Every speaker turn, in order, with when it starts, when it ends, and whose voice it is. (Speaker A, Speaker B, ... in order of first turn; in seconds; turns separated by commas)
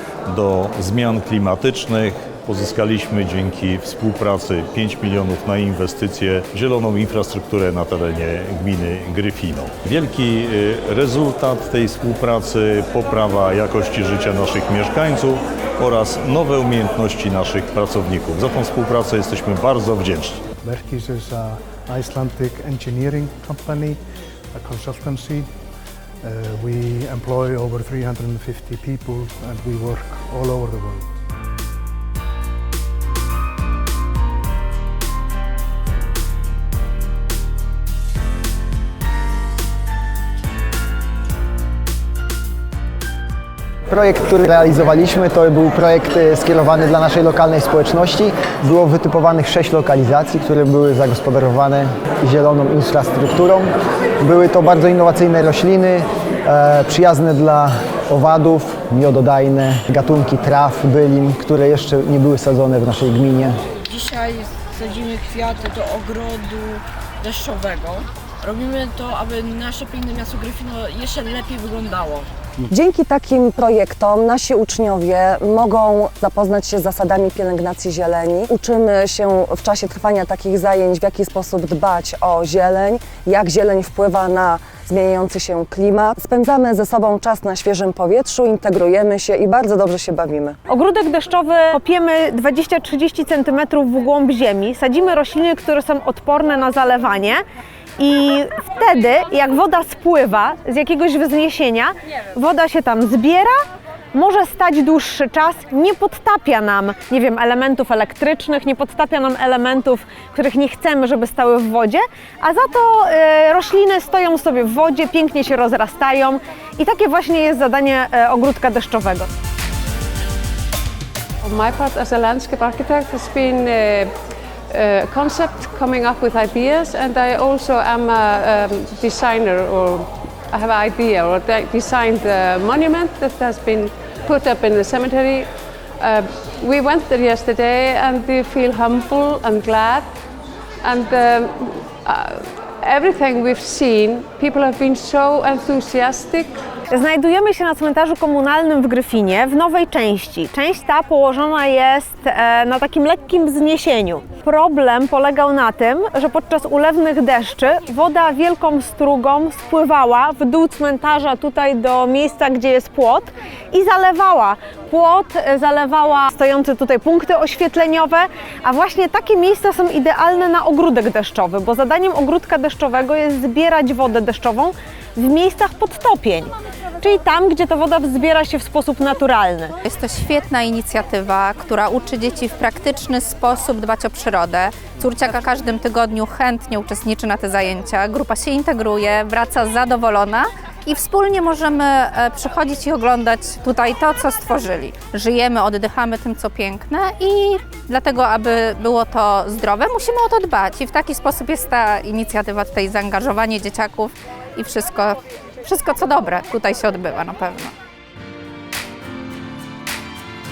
Speaker A: 0.3-20.5, Speaker B: 20.6-24.0, Speaker B: 24.5-25.5, Speaker B: 26.2-31.1, Speaker C: 43.9-63.5, Speaker D: 63.9-72.2, Speaker E: 72.7-90.5, Speaker F: 90.7-97.4, Speaker F: 98.0-103.6, Speaker F: 104.1-119.3, Speaker G: 121.4-124.1, Speaker G: 124.7-135.5, Speaker G: 136.0-140.1, Speaker G: 140.8-146.5, Speaker F: 146.9-179.8, Speaker H: 179.8-207.7